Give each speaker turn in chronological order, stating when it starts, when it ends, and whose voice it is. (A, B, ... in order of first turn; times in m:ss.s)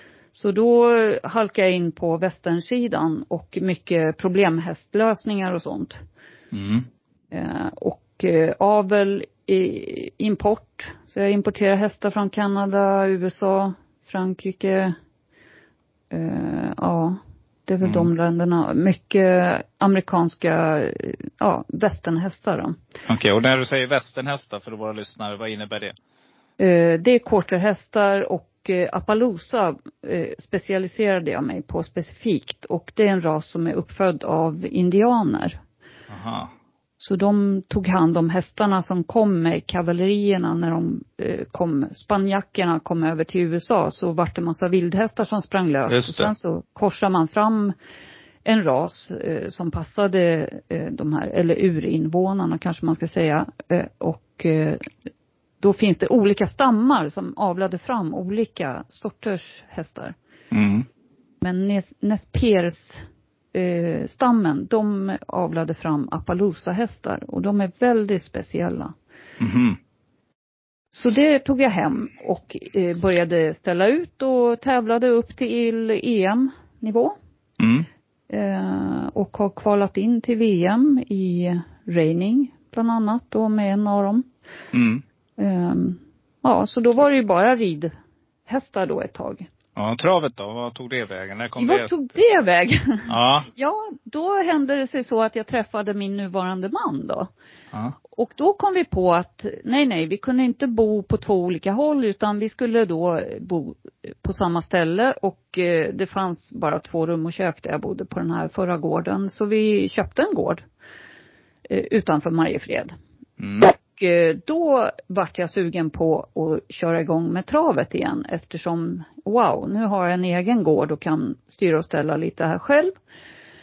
0:00.3-0:06.0 A
0:06.5-0:06.9 B
0:07.3-0:15.0 A
0:16.1-0:22.8 A
0:17.8-0:18.1 B
0:23.1-0:26.0 B
0:26.6-0:35.6 A
0:36.1-0:36.5 B
0:37.0-0:47.8 A
0:45.9-0:46.3 B
0:48.4-0:54.9 A
0:55.6-1:00.2 A
1:00.5-1:00.9 B
1:01.4-1:03.0 A
1:03.5-1:08.9 A
1:09.4-1:09.8 B
1:10.9-1:17.2 A
1:17.6-1:17.9 B
1:18.3-1:24.3 A
1:24.7-1:25.0 B
1:25.4-1:27.9 A
1:28.5-1:29.5 A
1:29.8-1:31.9 B
1:31.6-1:37.3 A
1:33.1-1:33.5 B
1:38.1-1:50.6 A
1:51.7-1:52.9 A
1:53.4-1:53.7 B
1:53.8-2:02.9 A